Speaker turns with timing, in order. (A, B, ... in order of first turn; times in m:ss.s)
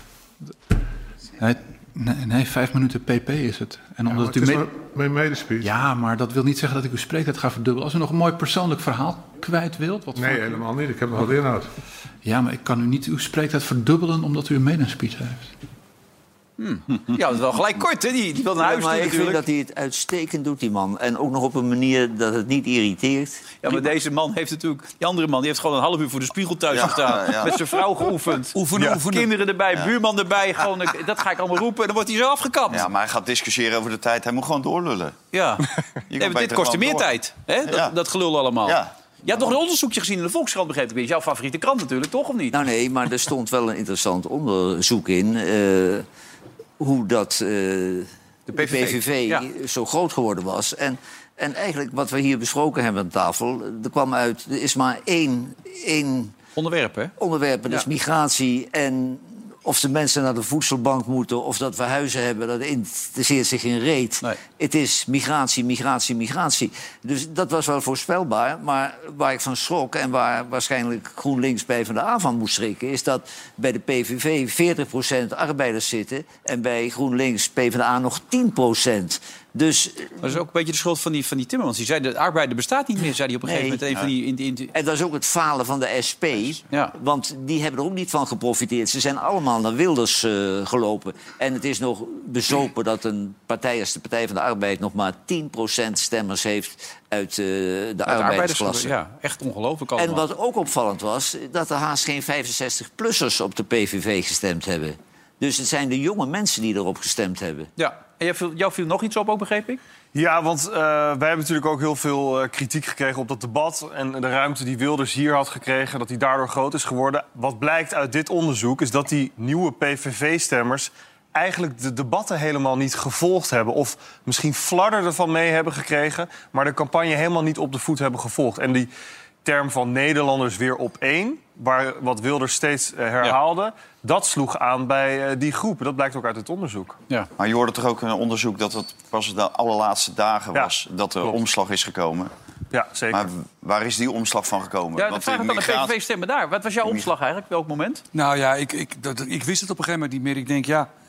0:01.4-0:04.7 A
0:04.1-0:05.7 B
0:05.6-0:10.6 A
0:10.2-0:11.7 B
0:12.2-0:15.5 A
0:16.6-0:19.4 C
0:18.5-0:23.4 D
0:23.6-0:32.9 C
0:26.7-0:27.5 E
0:28.5-0:29.3 F
0:28.7-0:29.0 G
0:32.7-0:35.2 E
0:35.3-0:35.7 C
0:36.1-0:38.0 E
0:36.2-0:42.6 C
0:38.6-0:38.9 E
0:42.5-0:46.0 D
0:46.8-0:56.3 D
0:48.5-0:49.4 C
0:56.6-0:57.1 C
0:57.2-1:20.4 D
1:20.2-1:24.7 C
1:23.4-1:23.8 D
1:24.7-1:38.9 D
1:38.0-1:40.2 C
1:40.0-1:47.7 D
1:47.8-1:49.8 C
1:50.1-2:08.9 G
2:09.4-2:17.0 G
2:17.4-2:22.3 E
2:20.5-2:21.4 G
2:22.7-2:23.3 G
2:23.1-2:26.0 E
2:25.0-2:28.0 C
2:26.8-2:27.1 E
2:28.1-2:30.9 F